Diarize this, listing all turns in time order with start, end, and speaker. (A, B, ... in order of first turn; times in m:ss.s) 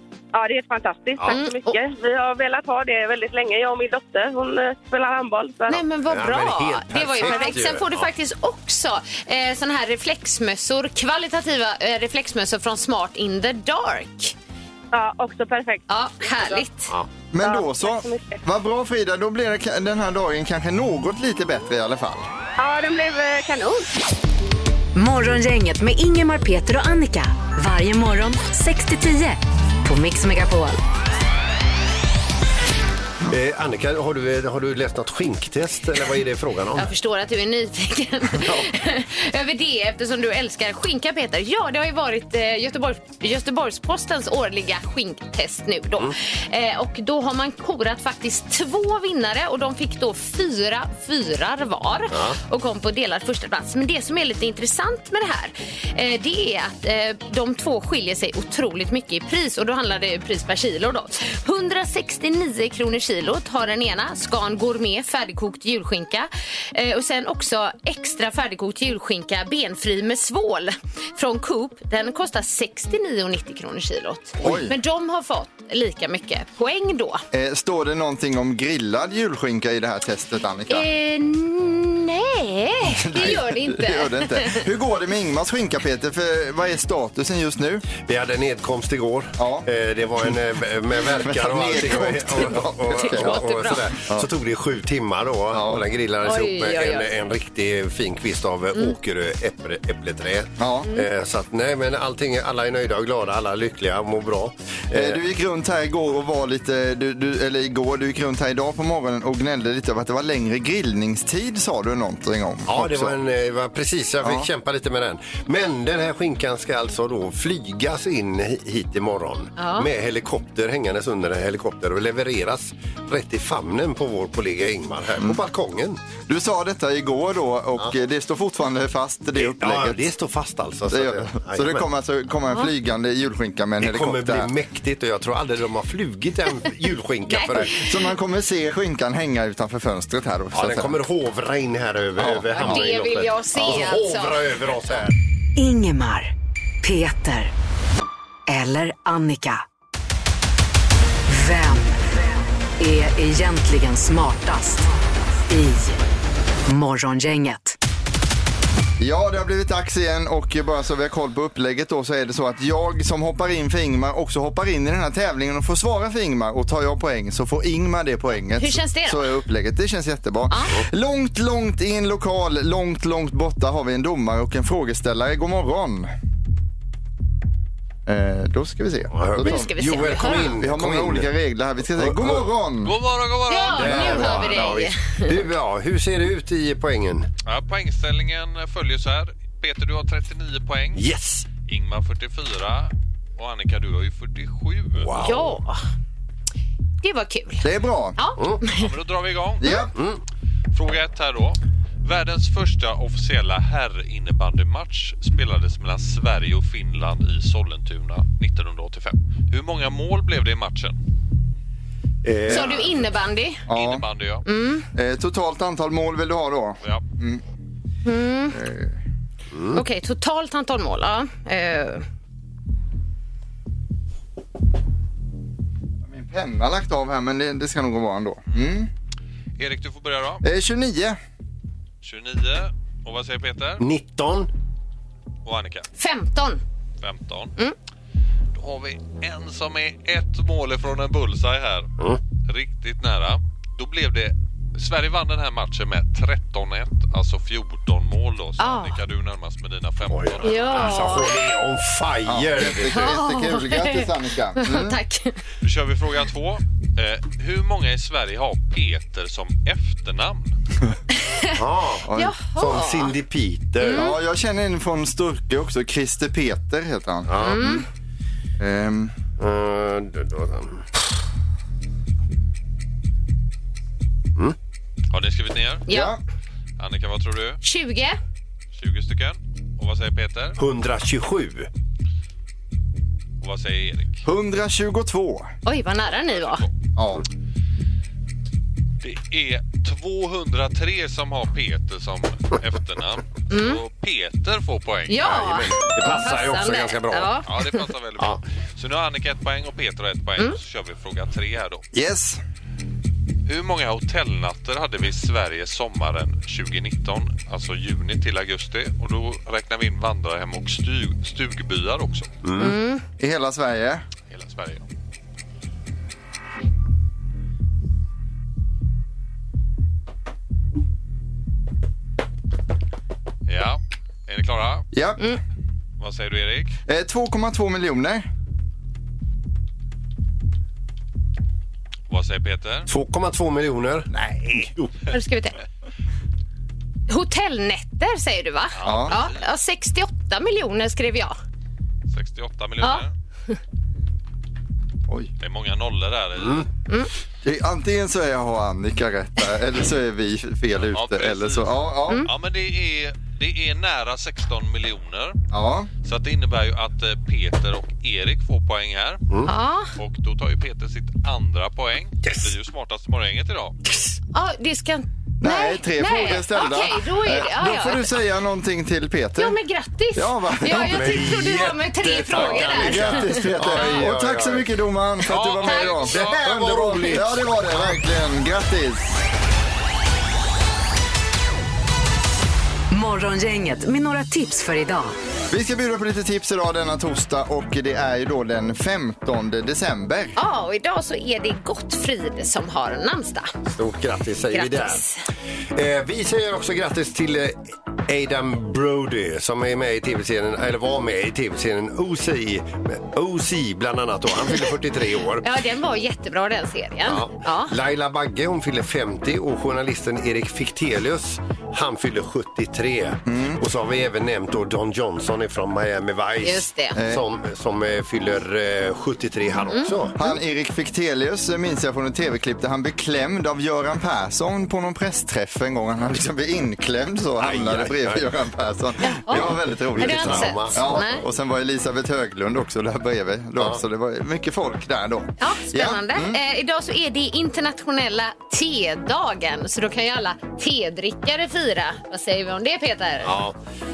0:00.3-0:05.8 A
0:01.3-0:01.8 B
0:05.7-0:14.3 B
0:06.0-0:08.1 C
0:07.2-0:07.6 A
0:14.9-0:16.6 A
0:15.9-0:16.9 B
0:17.3-0:22.2 D
0:17.4-0:18.4 A
0:22.6-0:23.9 A
0:24.9-0:30.8 E
0:33.3-0:36.9 C
0:36.8-1:17.2 B
0:52.1-0:52.4 C
1:14.4-1:14.7 D
1:17.3-1:20.9 D
1:20.7-1:24.6 B
1:23.0-1:27.8 D
1:28.0-1:45.2 C
1:29.4-1:29.7 D
1:31.1-1:33.4 D
1:32.9-1:33.8 B
1:35.5-1:35.8 D
1:36.2-1:37.1 B
1:40.6-1:40.9 D
1:44.9-1:53.2 D
1:52.7-2:06.0 C
1:54.2-1:54.5 D
1:59.6-1:59.9 B
2:06.3-2:10.1 D
2:09.4-2:11.8 C
2:10.9-2:14.5 D
2:13.8-2:17.7 C
2:17.3-2:17.8 B
2:17.5-2:21.0 D
2:20.5-2:25.1 C
2:22.2-2:22.8 D
2:22.5-2:24.4 B
2:25.6-2:26.3 E
2:26.8-2:27.5 E
2:28.5-2:29.6 E
2:31.3-2:32.0 E
2:32.8-2:34.9 E
2:35.5-2:36.0 E
2:36.7-2:37.8 E
2:39.0-2:56.1 D
2:48.6-2:49.2 B
2:50.5-2:50.7 B
2:58.0-3:02.9 D
2:59.1-3:01.3 C
2:59.4-3:00.6 B
3:01.9-3:02.5 C
3:02.8-3:04.6 F
3:03.5-3:05.4 B
3:03.7-3:07.3 C
3:03.8-3:04.6 D
3:07.4-3:11.0 F
3:10.9-3:11.5 C
3:11.6-3:15.1 F
3:15.0-3:15.6 C
3:15.2-3:15.8 B
3:17.0-3:18.8 B
3:17.6-3:18.2 D
3:18.7-3:19.8 F
3:19.6-3:19.9 D
3:19.9-3:20.2 C
3:20.7-3:31.0 F
3:32.2-3:33.0 C
3:32.5-3:33.6 B
3:33.7-3:34.0 D
3:33.7-3:34.4 F
3:34.4-3:34.9 B
3:34.9-3:37.4 D
3:38.0-3:38.6 B
3:38.5-3:39.0 D
3:39.5-3:39.8 C
3:39.7-3:42.0 B
3:46.0-3:48.9 D
3:49.6-3:50.4 F
3:50.4-3:51.2 D
3:52.0-3:53.8 F
3:53.8-3:54.5 C
3:55.4-3:55.9 F
3:56.0-3:56.6 B
3:57.0-3:57.5 F
3:58.5-4:01.9 F
4:02.5-4:11.1 F
4:08.6-4:09.0 B
4:10.1-4:13.0 C
4:10.4-4:11.3 B
4:12.2-4:15.0 D
4:12.9-4:15.4 B
4:15.6-4:20.6 F
4:21.6-4:24.0 C
4:22.1-4:22.3 D
4:22.1-4:23.1 B
4:23.8-4:24.2 B
4:23.9-4:27.8 D
4:27.3-4:27.7 C
4:27.4-4:27.8 B
4:28.6-4:29.1 D
4:29.4-4:30.9 C
4:35.1-4:35.8 F
4:35.9-4:36.1 B
4:35.9-4:36.2 D
4:36.8-4:37.6 F
4:37.6-4:38.2 B
4:38.7-4:40.6 F
4:40.6-4:41.7 C
4:43.4-4:44.2 F
4:44.2-4:45.5 D
4:45.6-4:46.6 B
4:46.1-4:46.7 F
4:47.0-4:47.2 D
4:49.0-4:55.4 F
4:53.5-4:53.8 B
4:55.1-4:57.8 B
4:55.2-4:57.4 C
4:57.4-5:01.8 F
5:01.9-5:02.4 D
5:03.5-5:12.3 F
5:12.4-5:12.8 C
5:12.6-5:13.0 B
5:13.2-5:14.0 D
5:14.3-5:14.8 F
5:23.5-5:24.9 F
5:24.9-5:25.4 D
5:26.0-5:26.8 F
5:26.9-5:28.3 D
5:32.1-5:32.9 F
5:32.9-5:34.9 C
5:34.1-5:34.7 D
5:35.1-5:35.6 B
5:37.1-5:41.4 B
5:38.8-5:39.3 F
5:38.8-5:39.2 D
5:42.1-5:43.1 F
5:45.4-5:46.7 F
5:46.4-5:46.7 C
5:47.4-5:52.2 D
5:50.7-5:55.4 F
5:55.5-5:55.9 D
5:56.0-5:59.2 F
5:59.4-5:59.9 B
6:00.0-6:03.8 F
6:02.2-6:02.5 C
6:03.9-6:04.1 C
6:04.3-6:08.1 B
6:05.4-6:09.6 D
6:09.4-6:13.5 B
6:10.1-6:11.3 D
6:10.7-6:14.6 C
6:12.3-6:19.2 D
6:13.7-6:14.0 F
6:15.2-6:16.4 F
6:16.1-6:17.4 C
6:22.9-6:25.1 E
6:25.5-6:30.4 D
6:30.4-6:33.5 B
6:33.7-6:35.0 C
6:34.5-6:35.2 B
6:35.7-6:45.4 C
6:45.4-6:47.7 B
6:47.0-7:00.2 C
6:53.2-6:53.6 D
6:56.4-6:57.0 B
6:57.0-6:57.2 D
6:59.7-7:00.3 B
7:00.2-7:16.4 D
7:07.4-7:08.3 C
7:09.0-7:11.2 B
7:09.3-7:11.1 C
7:15.4-7:23.4 B
7:23.2-7:23.6 C